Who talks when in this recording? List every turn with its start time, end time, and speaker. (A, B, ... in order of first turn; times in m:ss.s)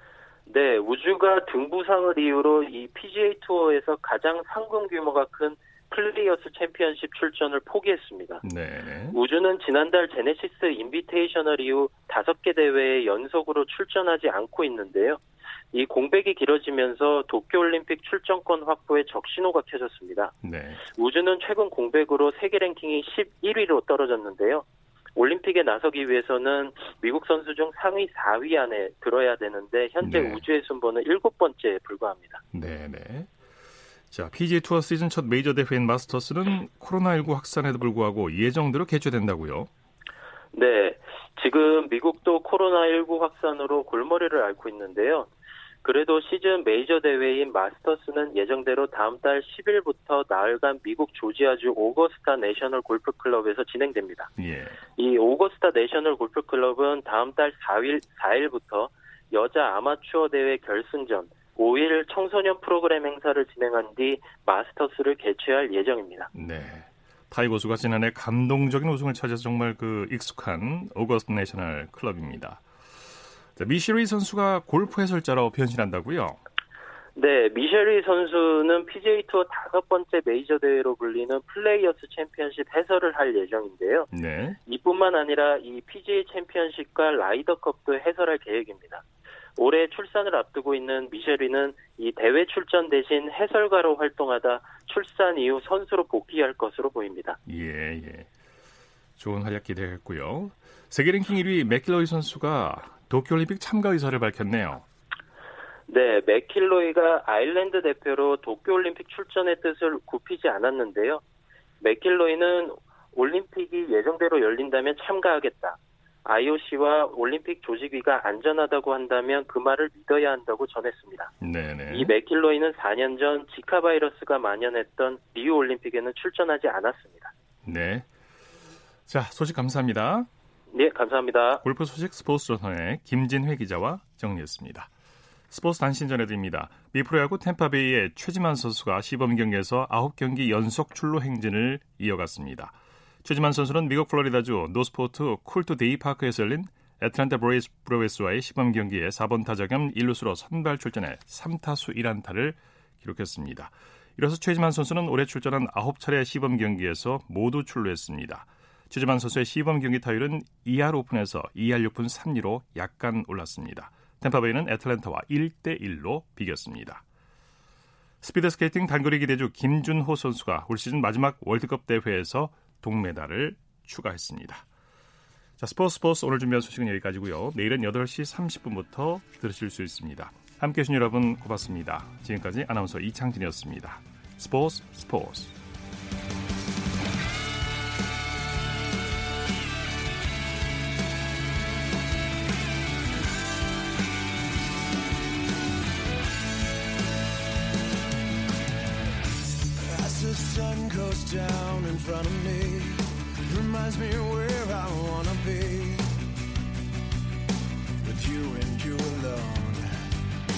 0:00.5-0:08.4 A
0:08.4-0:09.2 B
0:09.1-0:15.2 A
0:15.7-0:20.3 A
0:20.4-0:20.8 B
0:20.9-0:24.6 A
0:25.2-0:32.4 A
0:30.0-0:30.4 B
0:32.5-0:33.3 B
0:34.1-0:39.7 B
0:40.5-0:45.3 A
0:45.8-0:54.3 A
0:54.4-0:54.8 B
0:55.0-1:06.3 A
1:06.3-1:12.6 B
1:13.6-1:16.4 B
1:17.2-1:24.1 A
1:24.1-1:24.6 B
1:24.7-1:29.0 A
1:29.6-1:37.4 A
1:37.5-1:38.3 B
1:39.2-1:44.8 B
1:45.9-1:51.2 A
1:51.8-2:01.3 A
2:01.4-2:02.1 B
2:01.9-2:07.3 A
2:07.6-2:08.1 B
2:09.1-2:10.3 B
2:10.7-2:11.6 A
2:11.6-2:14.9 B
2:15.5-2:47.0 B
2:48.2-2:54.6 B
2:55.6-3:05.5 B
3:19.8-3:26.2 C
3:28.0-3:29.9 C